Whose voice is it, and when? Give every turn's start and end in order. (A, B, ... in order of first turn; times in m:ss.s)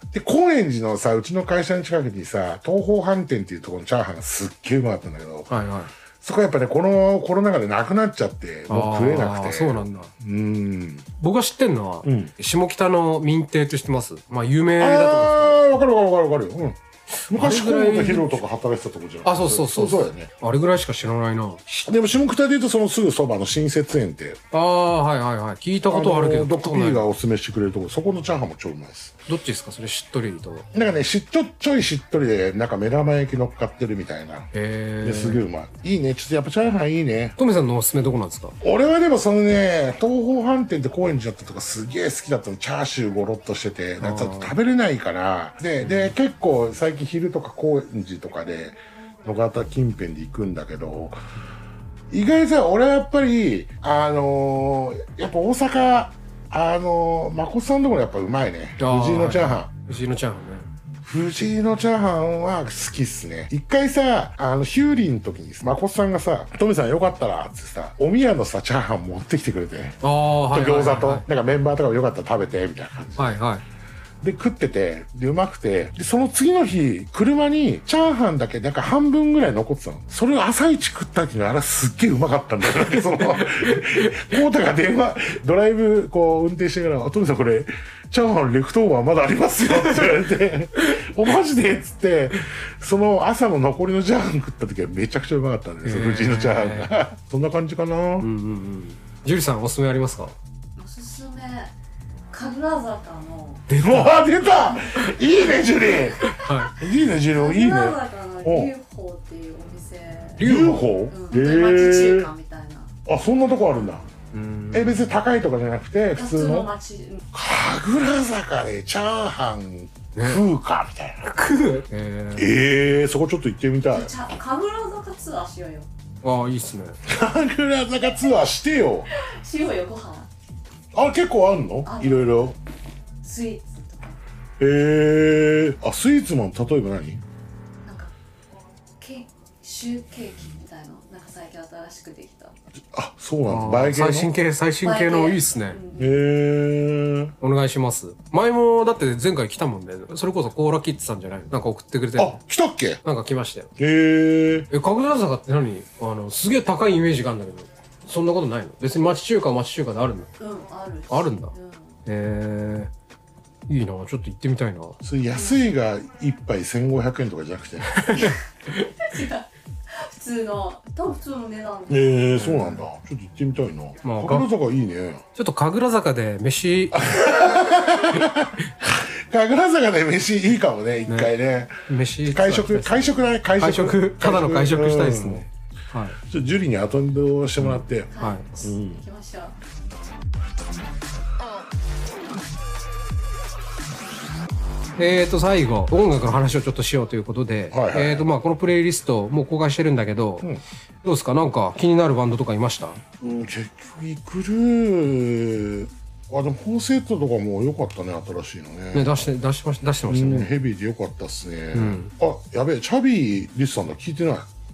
0:00.1-0:05.5 A
0:05.5-0:05.9 B
0:06.2-0:11.1 A
0:08.7-0:10.1 B
0:11.2-0:15.6 B
0:12.0-0:12.3 A
0:14.8-0:20.3 A
0:17.3-0:18.4 B
0:19.2-0:21.7 B
0:21.7-0:24.4 A
0:24.5-0:27.0 B
0:25.9-0:29.1 A
0:29.3-0:30.7 B
0:30.7-0:34.5 A
0:34.5-0:35.4 B
0:35.0-0:37.4 A
0:37.4-0:38.6 B
0:38.6-0:51.2 A
0:44.0-0:44.5 B
0:45.8-0:46.1 B
0:52.1-0:59.7 A
0:58.8-1:00.7 B
1:01.0-1:13.4 A
1:10.0-1:11.2 B
1:13.2-1:13.6 B
1:14.2-1:38.3 A
1:23.2-1:24.3 B
1:29.8-1:30.1 B
1:35.8-1:36.9 B
1:38.2-1:40.4 B
1:40.8-1:41.7 C
1:42.3-1:43.6 C
1:43.7-1:44.2 B
1:43.8-1:48.7 A
1:44.4-1:46.5 C
1:46.2-1:46.7 B
1:47.3-1:50.5 C
1:50.4-1:50.8 B
1:50.4-1:52.3 A
1:51.1-1:52.9 C
1:53.0-1:54.0 A
1:54.3-1:55.1 B
1:54.7-1:56.7 A
1:56.1-1:57.2 C
1:57.3-2:01.3 A
2:00.1-2:00.4 B
2:01.2-2:02.5 B
2:02.4-2:04.1 A
2:03.9-2:05.9 C
2:06.2-2:07.0 B
2:07.0-2:09.1 A
2:09.1-2:10.3 C
2:10.9-2:12.5 A
2:11.8-2:12.5 C
2:13.2-2:14.2 C
2:14.6-2:17.2 A
2:17.8-2:18.1 C
2:19.0-2:22.5 C
2:22.9-2:24.3 A
2:23.5-2:25.8 B
2:24.8-2:26.2 C
2:26.0-2:27.3 A
2:27.4-2:32.4 B
2:32.2-2:33.0 A
2:33.0-2:33.7 B
2:33.8-2:34.7 A
2:34.7-2:40.3 B
2:40.4-2:42.0 C
2:41.1-2:41.5 B
2:42.0-2:42.9 B
2:43.7-2:45.0 B
2:45.0-2:48.3 A
2:45.3-2:45.6 C
2:47.9-2:48.9 B
2:49.0-2:52.2 C
2:51.9-2:55.2 A
2:52.3-2:52.8 B
2:54.0-2:54.5 B
2:55.4-2:57.2 B
2:56.9-3:05.4 A
3:01.1-3:01.3 B
3:01.9-3:06.2 B
3:06.2-3:08.1 A
3:07.6-3:08.4 B
3:08.1-3:09.6 C
3:08.6-3:09.0 A
3:15.0-3:20.5 B
3:17.7-3:18.2 A
3:21.0-3:23.0 B
3:23.2-3:29.1 A
3:28.9-3:30.5 B
3:30.1-3:34.5 A
3:31.7-3:32.1 B